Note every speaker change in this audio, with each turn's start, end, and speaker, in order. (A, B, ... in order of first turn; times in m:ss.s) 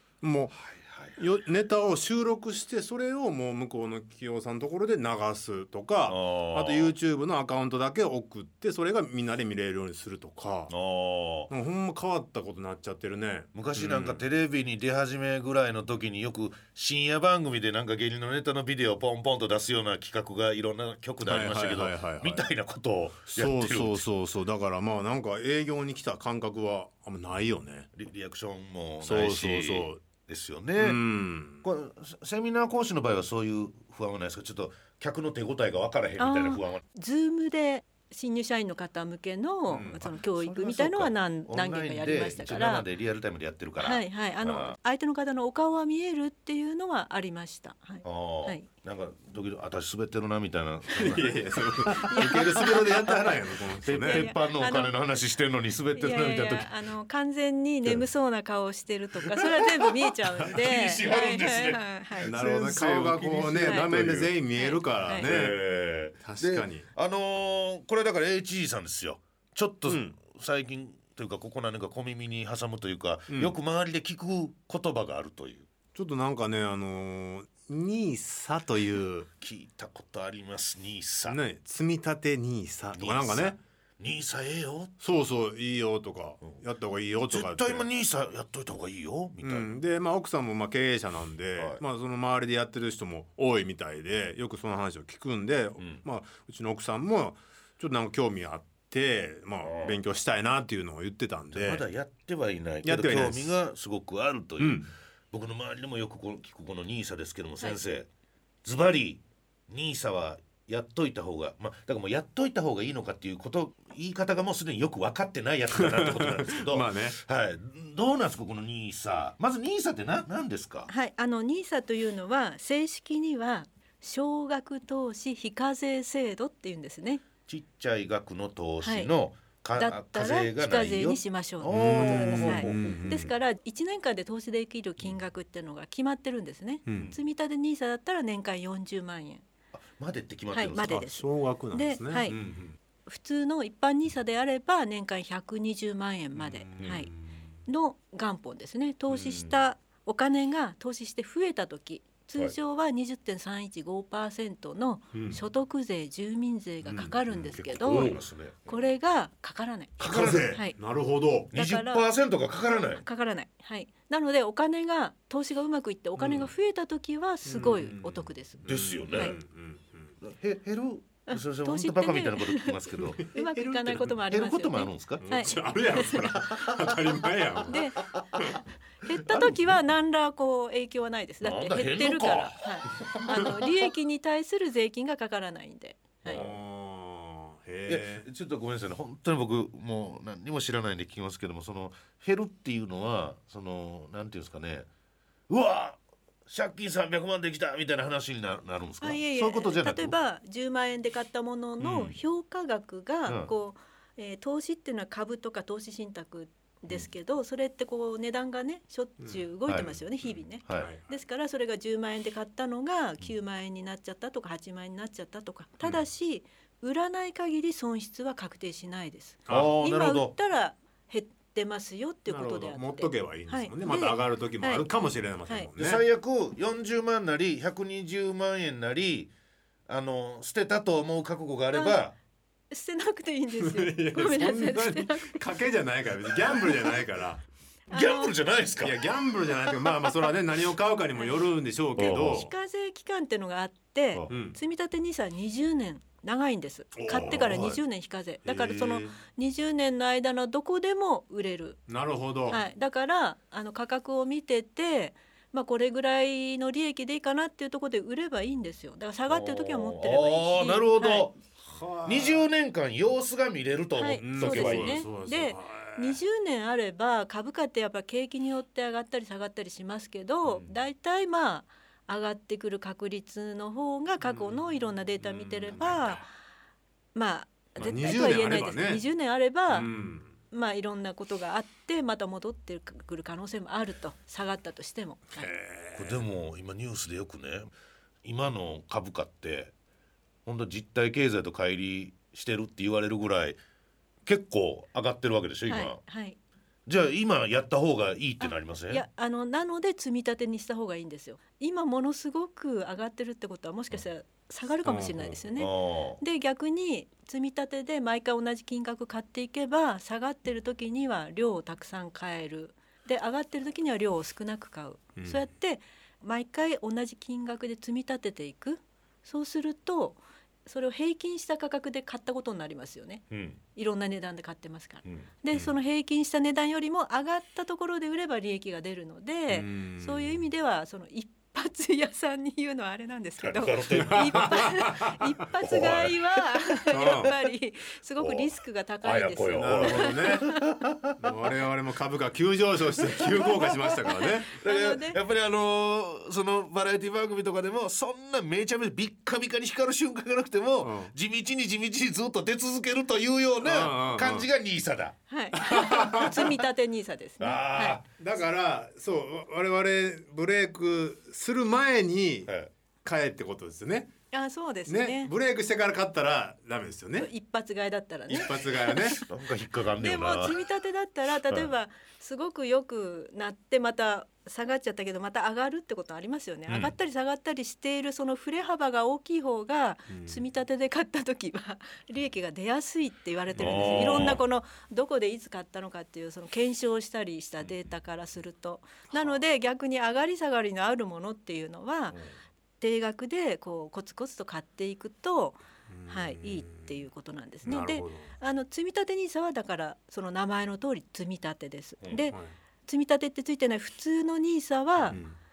0:00.2-0:00.6 A
0:00.6-0:01.2 B
0:01.2-0:10.7 A
0:06.1-0:07.0 B
0:10.7-0:11.5 B
0:11.5-0:14.2 A
0:13.5-0:24.0 B
0:21.2-0:22.4 A
0:23.3-0:27.9 A
0:27.9-0:31.0 B
0:29.0-0:30.0 A
0:30.8-0:31.6 A
0:31.6-0:36.8 B
0:36.2-0:42.8 C
0:39.8-0:44.8 B
0:43.8-0:48.6 C
0:48.0-0:56.7 B
0:50.9-0:54.3 A
0:51.9-0:52.8 C
0:54.0-0:54.9 C
0:56.0-1:02.3 C
0:59.2-1:04.3 B
1:02.2-1:05.6 A
1:03.6-1:03.9 C
1:04.5-1:05.3 C
1:05.2-1:15.7 B
1:06.2-1:06.9 A
1:09.9-1:10.2 A
1:13.3-1:13.5 A
1:15.9-1:19.3 A
1:19.4-1:21.4 B
1:21.3-1:23.6 A
1:22.9-1:25.0 B
1:25.0-1:27.8 A
1:27.3-1:29.7 B
1:29.4-1:41.8 A
1:39.6-1:40.0 B
1:41.5-1:48.1 B
1:42.8-1:43.6 A
1:44.6-1:44.9 A
1:48.6-2:00.9 B
1:55.7-1:57.2 A
2:00.9-2:07.2 C
2:07.5-2:13.2 B
2:08.8-2:09.1 C
2:09.8-2:19.4 C
2:11.7-2:13.3 A
2:16.8-2:17.1 A
2:19.7-2:21.1 B
2:20.5-2:22.4 C
2:20.9-2:22.3 A
2:22.3-2:22.8 B
2:23.0-2:27.1 C
2:26.3-2:27.3 A
2:26.8-2:27.0 B
2:27.7-2:40.8 C
2:29.1-2:29.6 B
2:35.1-2:35.4 A
2:36.8-2:37.2 A
2:37.3-2:38.9 B
2:37.8-2:38.2 A
2:40.0-2:41.5 A
2:40.0-2:40.6 B
2:41.5-2:43.0 B
2:41.5-2:42.0 C
2:42.9-2:49.4 C
2:46.2-2:46.5 A
2:47.4-2:50.1 A
2:48.6-2:49.3 B
2:50.2-2:53.3 B
2:51.3-2:56.4 C
2:53.2-2:54.2 A
2:53.9-2:55.5 B
2:55.2-2:57.8 A
2:56.5-2:57.0 B
2:57.6-3:06.4 C
2:59.2-2:59.7 B
3:01.4-3:03.9 B
3:06.2-3:06.6 B
3:06.3-3:08.3 A
3:07.8-3:14.9 B
3:15.5-3:20.2 B
3:19.0-3:44.8 C
3:21.8-3:22.2 B
3:29.7-3:30.0 B
3:30.8-3:31.0 A
3:39.5-3:39.7 A
3:39.5-3:40.3 B
3:42.3-3:46.0 A
3:45.8-3:49.3 B
3:49.9-3:52.1 B
3:51.7-3:52.0 C
3:52.7-3:55.6 C
3:53.6-3:57.4 A
3:57.9-3:58.3 C
3:57.9-3:59.1 B
3:58.8-4:02.5 A
4:02.0-4:02.4 B
4:02.0-4:11.8 C
4:04.3-4:04.6 A
4:07.0-4:07.8 A
4:07.3-4:07.7 B
4:08.4-4:09.2 A
4:11.9-4:12.6 A
4:12.5-4:21.3 C
4:19.3-4:21.4 B
4:21.6-4:22.4 A
4:22.0-4:25.0 B
4:24.0-4:36.3 C
4:24.2-4:26.2 A
4:34.2-4:34.6 A
4:35.2-4:36.2 A
4:37.1-4:39.9 C
4:37.8-4:39.0 A
4:39.7-4:40.3 A
4:40.5-4:45.5 C
4:45.3-4:46.2 A
4:45.9-4:47.7 B
4:48.2-4:49.7 B
4:50.4-4:53.6 B
4:54.2-4:56.0 B
4:55.7-4:56.4 C
4:56.8-4:59.0 B
4:58.4-5:40.7 C
5:04.8-5:05.4 A
5:05.6-5:06.2 B
5:15.2-5:15.4 A
5:23.3-5:23.6 B
5:29.5-5:30.4 A
5:33.4-5:34.8 B
5:33.9-5:35.2 A
5:35.6-5:36.5 B
5:36.9-5:37.3 A
5:38.2-5:38.5 B
5:39.0-5:41.3 B
5:39.5-5:40.5 A
5:41.2-5:44.5 A
5:43.0-5:43.9 B
5:44.1-5:45.2 C
5:44.5-5:55.2 B
5:50.8-5:51.1 A
5:53.6-5:54.5 A
5:55.3-5:58.0 C
5:55.6-5:56.5 A
5:56.1-5:56.5 B
5:57.4-5:58.0 B
5:58.1-6:02.5 A
6:02.4-6:02.7 B
6:03.0-6:04.1 A
6:04.3-6:05.3 C
6:04.9-6:07.3 A
6:07.2-6:08.9 C
6:08.3-6:10.6 B
6:08.3-6:09.2 A
6:10.0-6:32.2 C
6:16.7-6:16.9 B
6:20.1-6:20.4 A
6:23.6-6:24.4 A
6:23.6-6:24.4 B
6:32.8-6:45.2 C
6:35.9-6:37.0 A
6:37.6-6:38.3 A
6:42.3-6:42.5 A
6:45.1-6:45.4 A